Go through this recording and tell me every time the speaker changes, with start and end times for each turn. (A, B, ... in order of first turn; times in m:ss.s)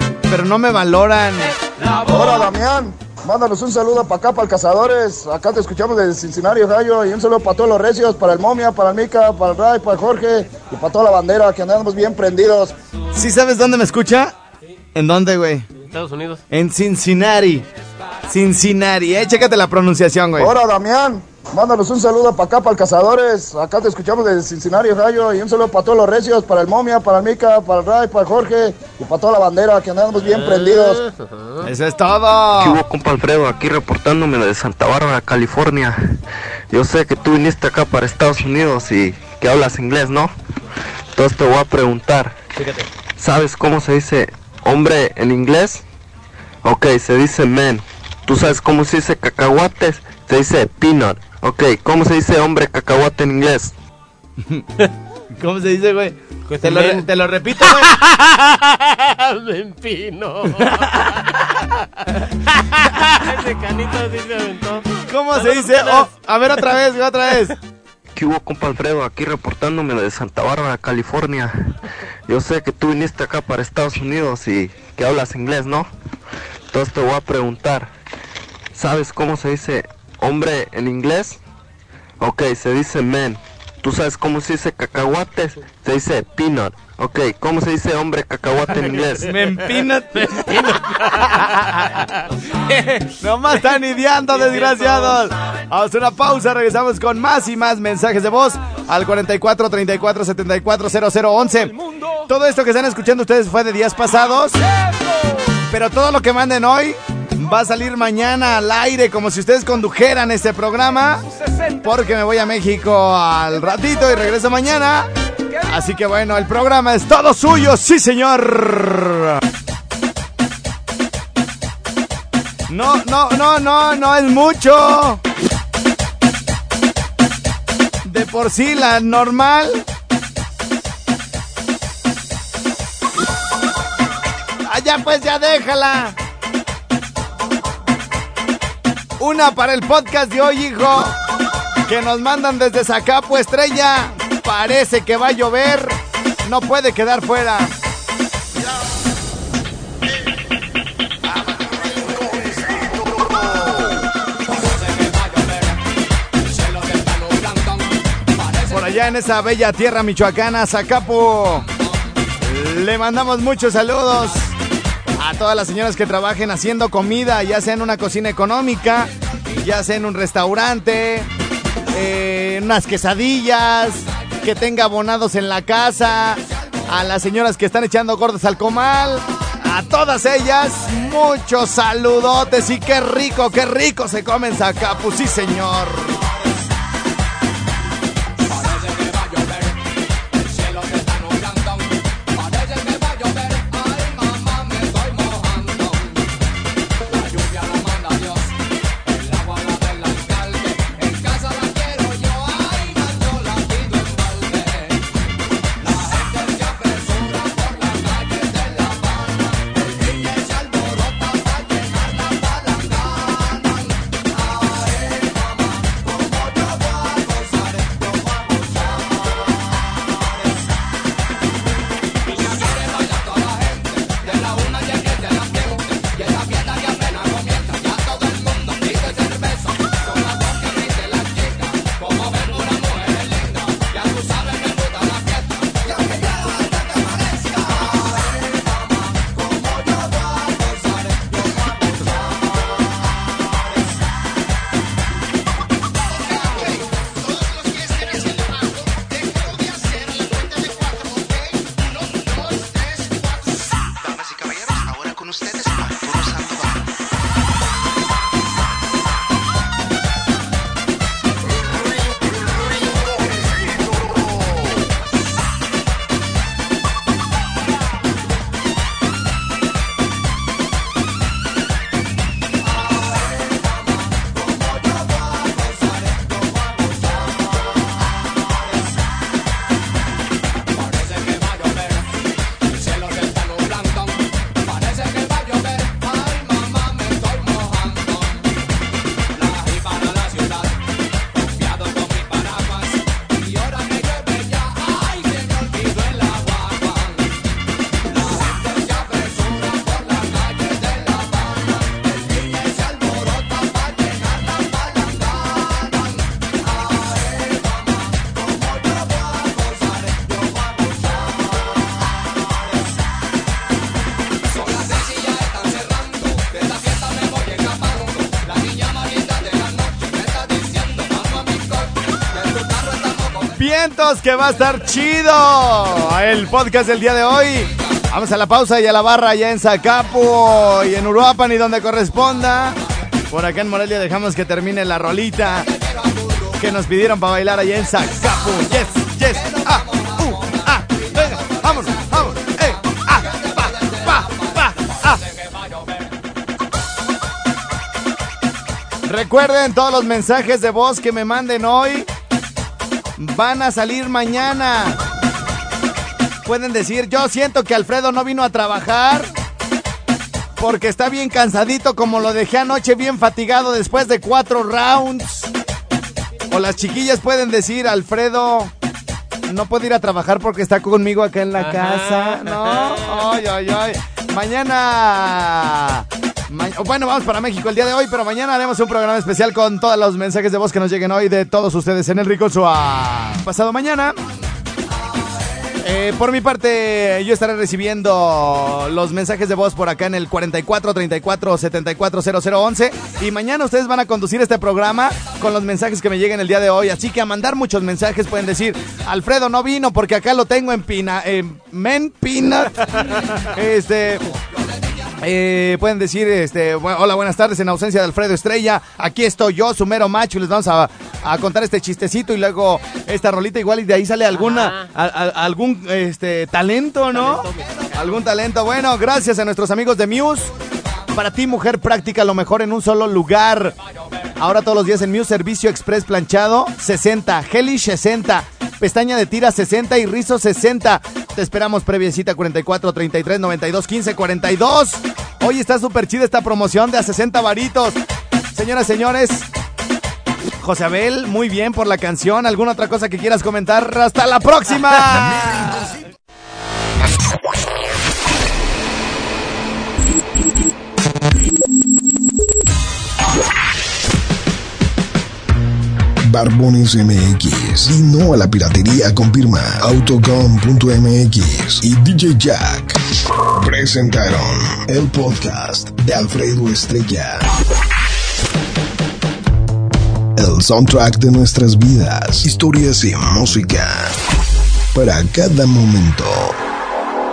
0:00.3-0:01.5 A
0:02.1-0:12.7 B
0:13.1-0:14.3 A
0:14.9-0:15.7 A
0:15.8-0:16.4 C
0:16.5-0:17.6 A
0:18.3-0:20.5 A
0:20.4-0:31.0 B
0:30.2-0:31.7 C
0:31.6-0:32.8 A
0:32.6-0:36.0 D
0:36.7-0:40.3 D
0:41.1-0:42.3 D
0:43.2-0:45.8 D
0:46.6-0:53.7 D
0:55.4-0:57.9 A
0:56.5-0:57.1 C
0:57.6-1:06.1 C
1:00.6-1:01.2 A
1:05.1-1:07.5 A
1:08.1-1:11.7 D
1:12.3-1:15.9 D
1:16.7-1:17.9 D
1:18.7-1:21.4 D
1:22.2-1:29.3 D
1:29.2-1:31.9 A
1:30.1-1:33.1 C
1:33.2-1:41.7 A
1:34.3-1:35.2 C
1:42.3-1:44.6 A
1:45.7-1:51.2 A
1:51.8-1:55.1 A
1:55.6-1:59.4 A
2:02.7-2:05.2 A
2:08.0-2:09.8 A
2:14.6-2:16.2 A
2:19.2-2:21.2 A
2:21.9-2:27.7 A
2:38.7-2:41.6 A
2:42.4-2:44.5 A
2:45.2-2:51.3 A
2:51.9-3:06.2 A
5:23.6-5:35.7 A
5:36.6-5:45.2 A
5:49.0-5:52.1 A
5:53.2-5:55.0 A
5:56.4-5:59.3 A
6:00.6-6:05.5 A
6:06.5-6:08.7 A
6:09.4-6:24.2 A
6:11.6-6:13.3 C
6:25.8-6:44.2 A
6:45.2-7:00.5 A
6:54.3-6:54.9 C
6:57.0-6:58.2 C
7:01.1-7:03.7 A
7:04.4-7:18.0 A
7:18.5-7:19.4 A
7:20.6-7:25.9 A
7:36.2-7:43.0 E
7:43.6-7:47.4 E
7:50.4-7:54.1 E
7:54.9-7:56.6 E